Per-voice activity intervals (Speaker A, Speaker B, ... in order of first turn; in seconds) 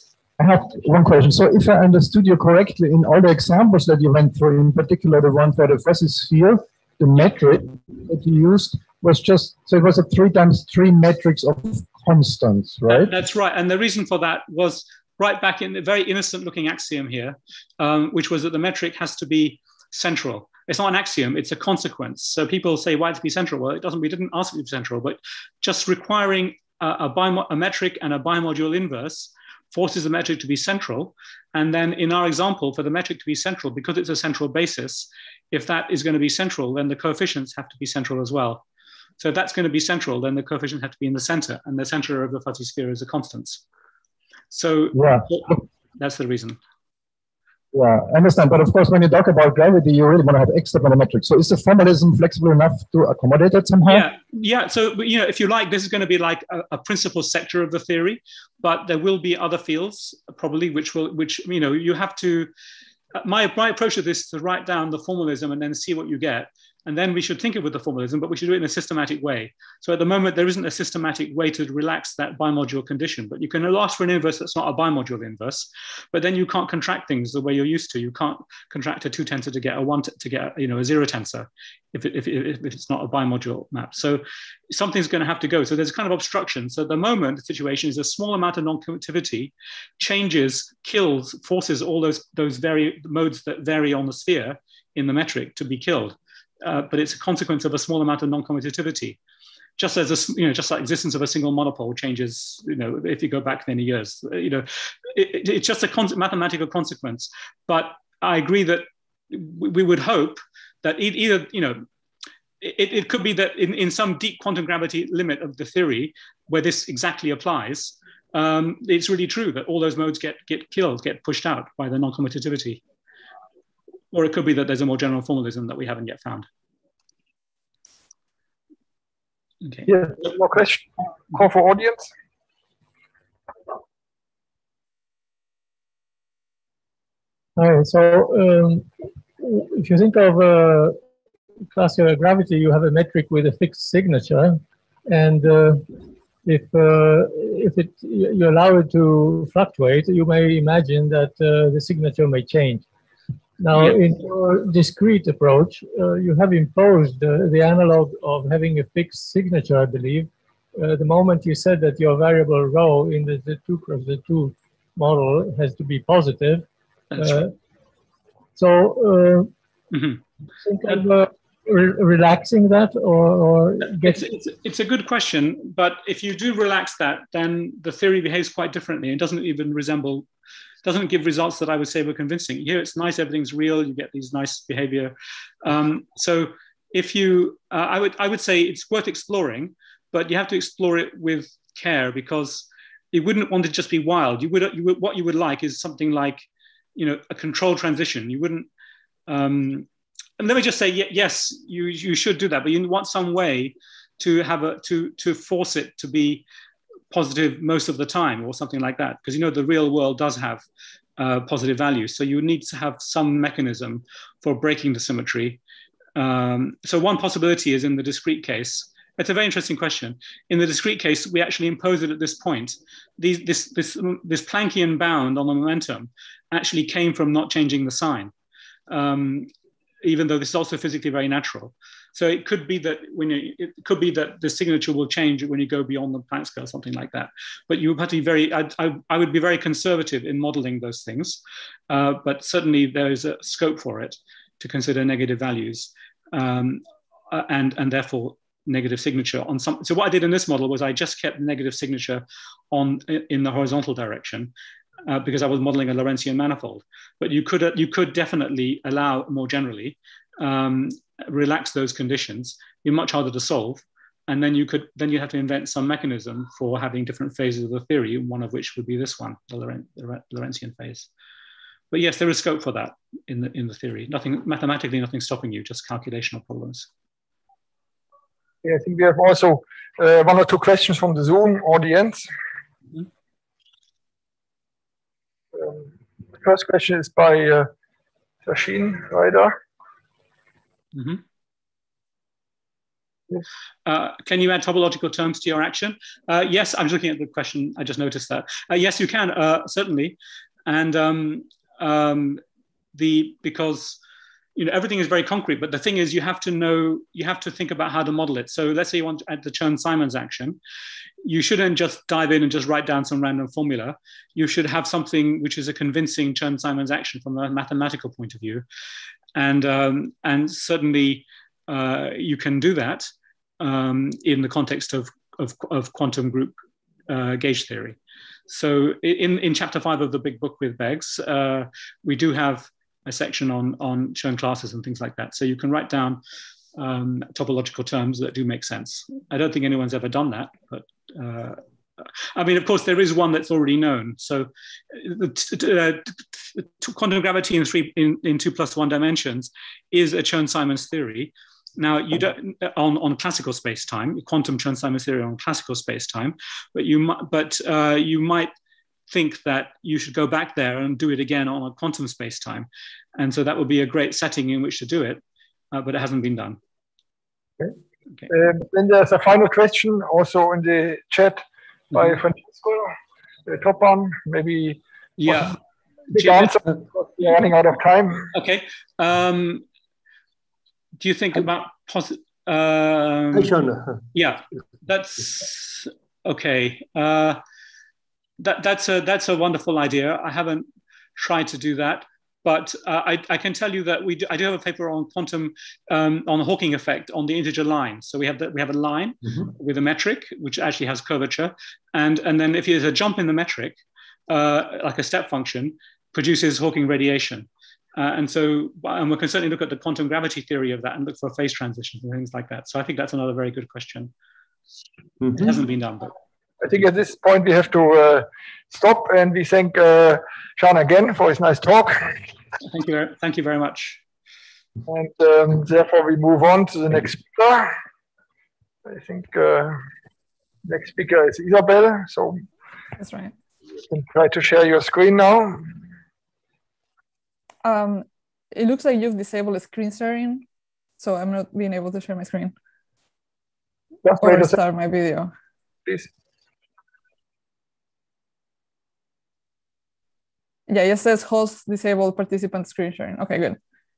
Speaker A: 0.4-13.1, 44.9-45.6, 47.7-54.0
Speaker B: 12.9-38.6, 39.2-43.6, 44.5-46.6, 53.8-62.5, 63.1-99.2, 99.8-111.8, 112.6-122.8, 124.1-126.5, 167.1-167.4, 169.9-170.2, 173.8-180.3, 180.8-198.7, 199.3-199.9, 200.4-206.4, 207.1-210.6, 211.2-215.6, 216.2-228.3, 228.9-229.5, 230.0-254.5, 255.1-271.1, 271.9-276.9, 290.9-291.2, 293.9-302.4, 302.9-304.0, 304.6-310.6, 311.2-318.6, 319.3-326.6, 327.1-328.0, 328.5-336.2, 336.8-341.6, 342.3-358.5, 359.1-365.2, 365.7-366.6, 375.2-375.6, 376.1-376.5, 378.3-379.6, 381.0-383.6, 384.1-387.4, 388.4-403.8, 404.3-414.1, 415.3-416.1, 422.6-424.0
Speaker C: 129.8-132.1, 278.6-282.3, 285.5-287.7, 288.4-289.5, 368.3-372.9, 373.4-375.5, 376.1-378.3, 416.6-422.2, 424.9-427.7, 428.9-429.8, 430.6-432.4, 433.9-435.7, 444.0-444.6
Speaker D: 137.6-141.0, 141.7-145.9, 146.4-152.8, 153.6-166.7, 167.2-167.5, 168.6-169.5, 170.6-174.2
Speaker E: 433.0-433.3, 437.6-440.4, 441.0-442.5, 444.2-445.3, 450.7-453.6